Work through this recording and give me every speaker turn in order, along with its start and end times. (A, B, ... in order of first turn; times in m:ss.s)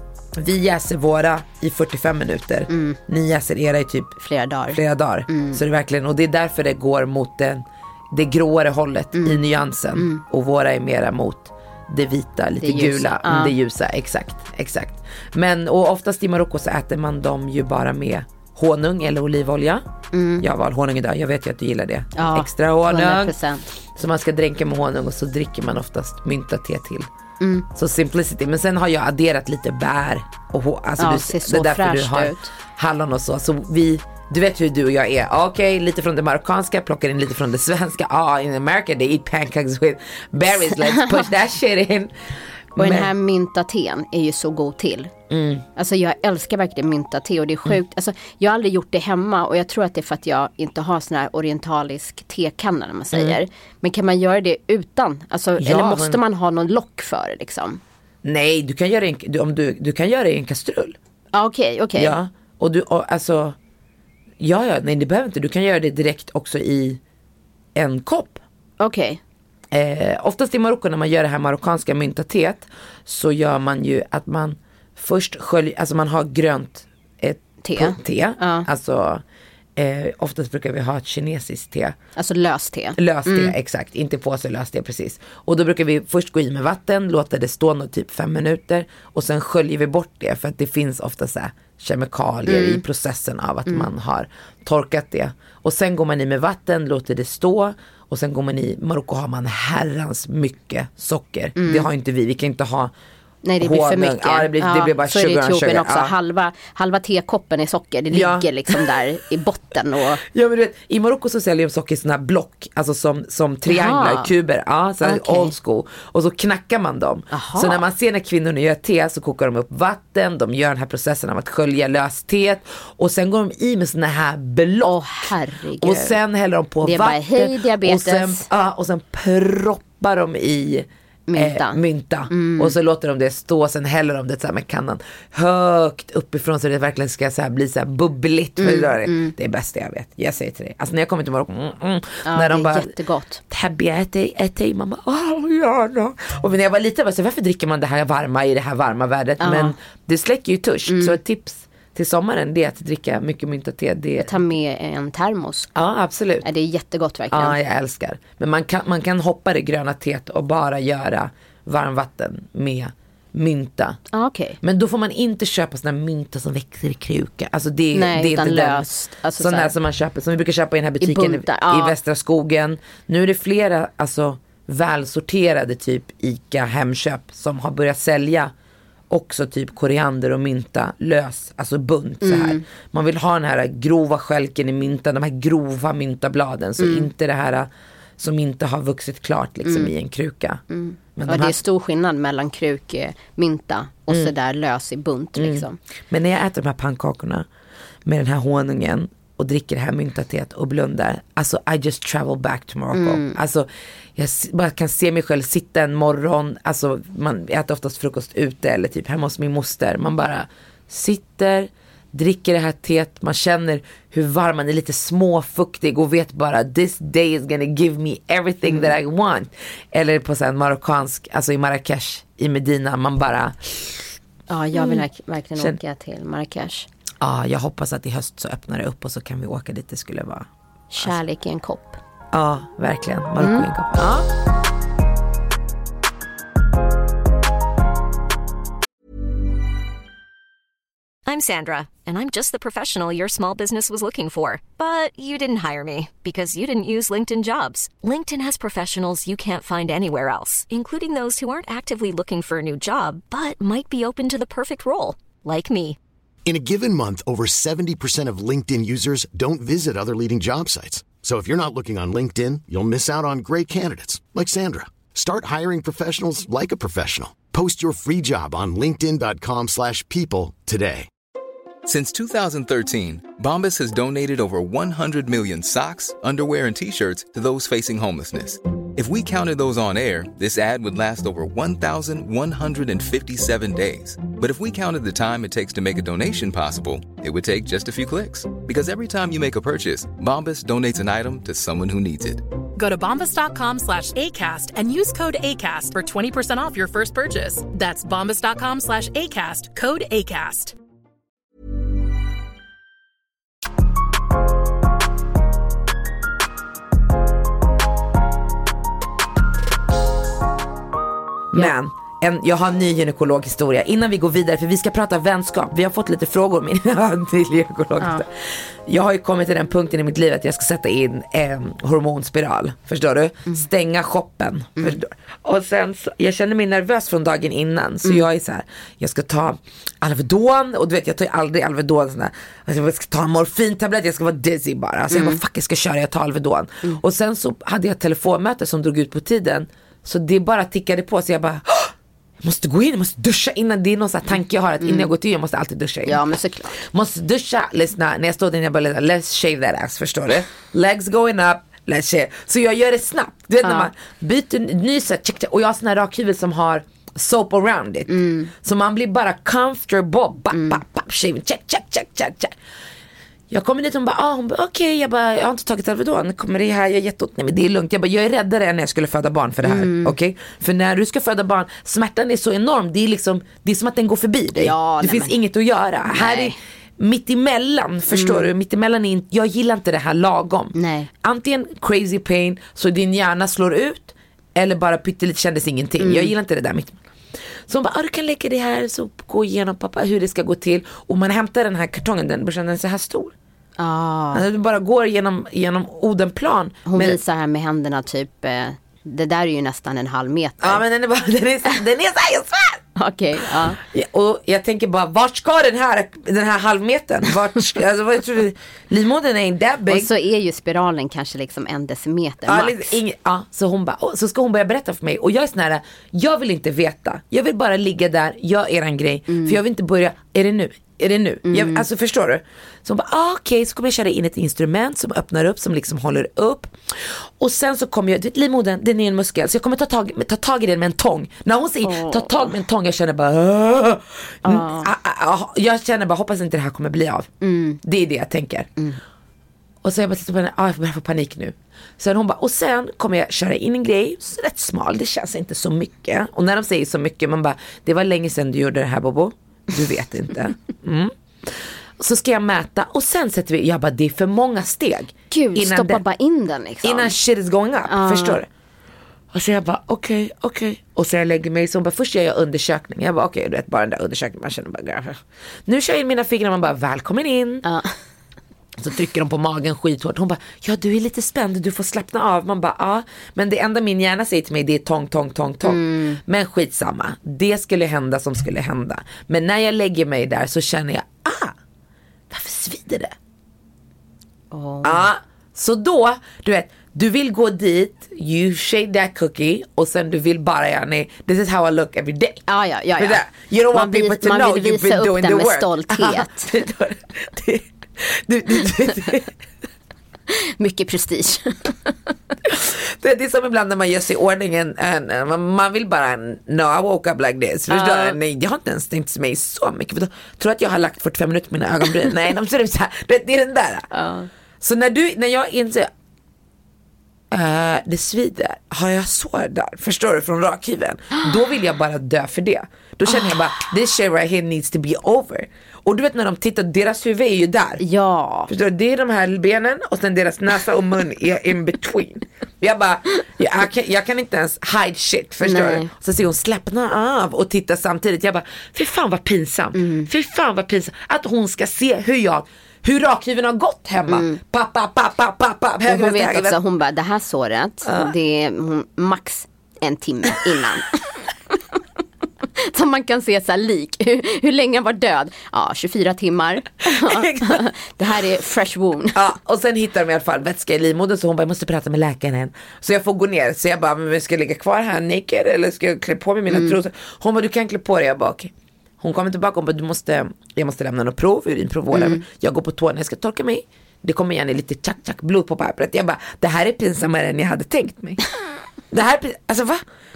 0:00.4-0:04.2 A
0:02.7-0:03.0 B
0:04.2-0:05.6 B
0:04.7-0:19.8 A
0:09.2-0:09.4 B
0:10.0-0:10.2 B
0:12.6-0:13.5 B
0:20.1-0:20.4 B
0:20.4-0:23.4 A
0:22.2-0:23.7 B
0:23.9-0:27.1 A
0:27.4-0:27.6 B
0:27.7-0:42.1 A
0:31.0-0:32.5 B
0:40.7-0:41.3 B
0:42.7-0:43.1 A
0:42.8-0:45.1 B
0:45.3-0:45.6 A
0:45.8-0:57.8 B
0:53.1-0:53.4 A
0:55.6-0:56.2 A
0:58.2-1:01.0 A
1:01.3-1:02.2 B
1:02.0-1:03.6 A
1:04.4-1:07.0 A
1:07.7-1:08.4 A
1:08.8-1:09.2 B
1:09.7-1:19.2 A
1:17.6-1:18.7 B
1:19.8-1:22.0 A
1:22.2-1:23.5 B
1:23.0-1:42.9 A
1:32.4-1:32.8 B
1:41.6-1:41.9 B
1:43.4-1:50.2 B
1:43.6-1:46.1 A
1:48.1-1:48.8 A
1:50.2-2:22.9 A
1:53.6-1:54.3 B
1:55.0-1:55.5 B
1:57.3-1:57.8 B
2:04.8-2:06.2 B
2:06.8-2:08.5 B
2:11.3-2:12.7 B
2:18.6-2:19.3 B
2:22.2-2:23.4 B
2:23.5-2:34.4 A
2:29.4-2:29.7 B
2:30.9-2:31.2 B
2:34.2-2:35.7 B
2:35.7-2:36.5 A
2:36.4-2:37.6 B
2:37.3-2:44.0 A
2:44.1-2:44.6 B
2:44.6-2:58.5 A
2:47.9-2:49.7 B
2:51.0-2:52.0 B
2:59.1-3:10.6 A
3:02.2-3:02.6 B
3:06.8-3:07.1 B
3:09.6-3:09.9 B
3:10.7-3:15.8 B
3:11.2-3:11.6 A
3:15.4-3:17.4 A
3:18.0-3:44.1 A
3:22.9-3:23.4 B
3:44.5-3:46.9 B
3:44.7-3:45.0 A
3:47.2-3:50.5 A
3:50.9-3:52.0 B
3:52.3-3:54.3 A
3:53.4-3:53.7 B
4:01.2-4:16.0 C
4:16.4-4:31.1 D
4:31.8-4:52.4 E
4:52.7-5:00.7 F
5:11.5-6:02.5 A
5:35.1-5:35.4 B
5:44.8-5:45.1 B
5:46.0-5:46.8 B
5:53.6-5:53.9 B
5:58.1-5:58.5 B
6:00.5-6:00.8 B
6:03.5-6:27.0 A
6:09.6-6:10.1 B
6:14.6-6:15.4 B
6:16.1-6:16.5 B
6:18.1-6:18.5 B
6:20.7-6:21.1 B
6:26.0-6:26.3 B
6:27.7-6:33.3 A
6:33.8-6:34.4 B
6:34.3-6:37.2 A
6:36.8-6:40.8 B
6:40.6-6:42.8 A
6:43.0-6:43.8 B
6:43.5-6:50.1 A
6:49.9-6:53.0 B
6:52.4-7:17.3 A
6:59.3-6:59.6 B
7:01.5-7:01.8 B
7:11.8-7:12.5 B
7:14.4-7:14.9 B
7:17.4-7:17.8 B
7:17.8-7:18.7 A
7:19.8-7:36.0 A
7:35.3-7:37.1 B
7:36.8-7:38.5 A
7:37.9-7:38.4 B
7:39.3-7:47.6 A
7:47.6-7:48.0 B
7:48.8-8:01.6 A
7:55.6-7:56.2 B
8:02.3-8:03.1 A
8:04.5-8:05.1 B
8:04.8-8:12.4 A
8:12.5-8:16.5 B
8:13.0-8:19.3 A
8:20.3-8:22.1 B
8:22.4-8:33.9 A
8:27.7-8:28.2 B
8:33.9-8:34.3 B
8:34.6-8:35.9 A
8:37.3-8:47.8 A
8:47.8-8:48.5 B
8:48.5-9:06.6 A
8:55.4-8:55.9 B
8:59.7-9:00.1 B
9:04.1-9:04.4 B
9:05.8-9:10.9 B
9:07.8-9:08.1 A
9:12.6-9:19.2 B
9:16.8-9:17.7 A
9:19.1-9:38.2 A
9:26.5-9:26.7 B
9:31.9-9:32.2 B
9:38.9-9:39.8 A